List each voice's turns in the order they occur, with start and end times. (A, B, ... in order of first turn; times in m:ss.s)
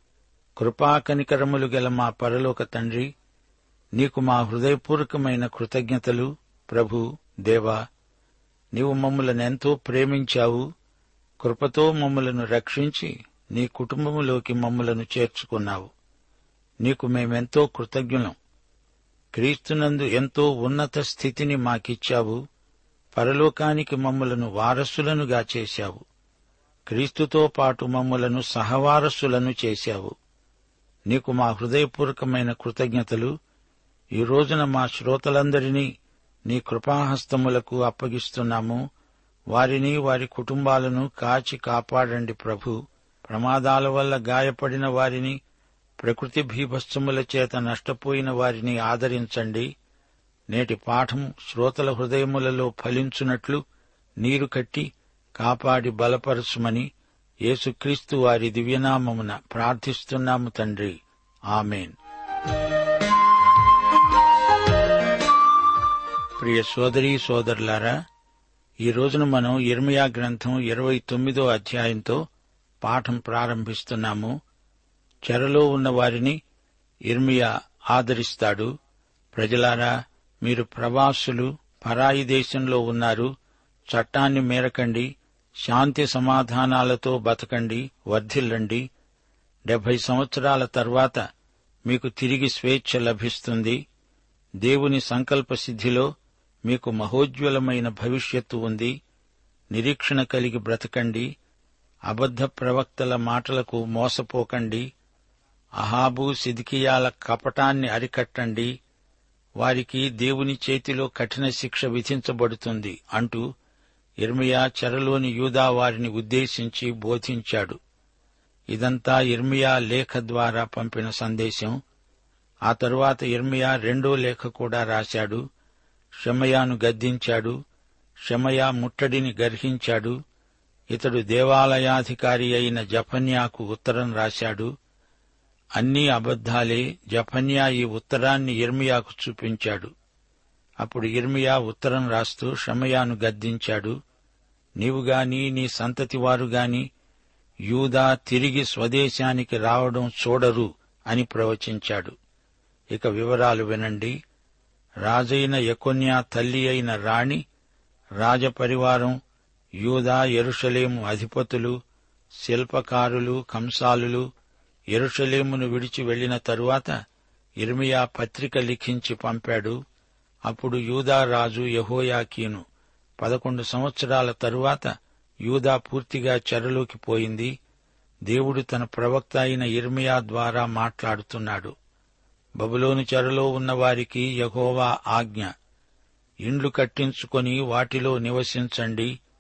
0:00.6-0:03.1 A
0:04.0-0:07.8 A
0:08.8-0:10.6 A
0:11.4-0:15.9 A
0:16.8-0:18.4 A
0:19.3-0:22.4 A
0:23.1-0:26.0 A
0:26.9-0:30.1 A
0:31.1-0:33.3 A
0:34.2-0:35.9 A
0:36.5-0:38.8 A
0:39.5-0:45.4 A
0:46.0-0:49.7 A
0:50.5-0:53.6 A
0:54.2-0:56.9 A
0:57.5-1:01.0 A
1:01.5-1:02.0 A
1:06.4-1:08.0 A
1:08.8-1:12.2 A
1:12.8-1:14.4 A
1:15.3-1:16.4 A
1:17.1-1:18.7 A
1:19.4-1:19.9 A
1:20.4-1:23.3 A
1:23.9-1:25.1 A
1:25.6-1:28.9 A
1:29.7-1:31.2 A
1:31.9-1:33.8 A
1:34.6-1:36.1 A
1:36.7-1:38.9 A
1:39.7-1:41.3 A
1:42.1-1:44.8 A
1:45.8-1:48.7 A
1:49.6-1:53.4 A
1:54.2-1:57.8 A
1:58.7-2:01.8 A
2:02.7-2:05.4 A
2:06.2-2:07.6 A
2:08.3-2:10.2 A
2:10.9-2:14.7 A
2:15.8-2:19.9 A
2:20.8-2:24.0 A
2:24.8-2:26.9 A
2:27.7-2:32.2 A
2:32.9-2:34.2 A
2:35.0-2:37.4 A
2:38.2-2:39.2 A
2:39.8-2:41.7 A
2:42.4-2:44.3 A
2:44.9-2:46.9 A
2:47.6-2:49.8 A
2:50.5-2:52.6 A
2:53.2-2:54.9 A
2:55.4-2:57.5 A
2:58.3-3:01.7 A
3:02.6-3:05.5 A
3:06.5-3:09.1 A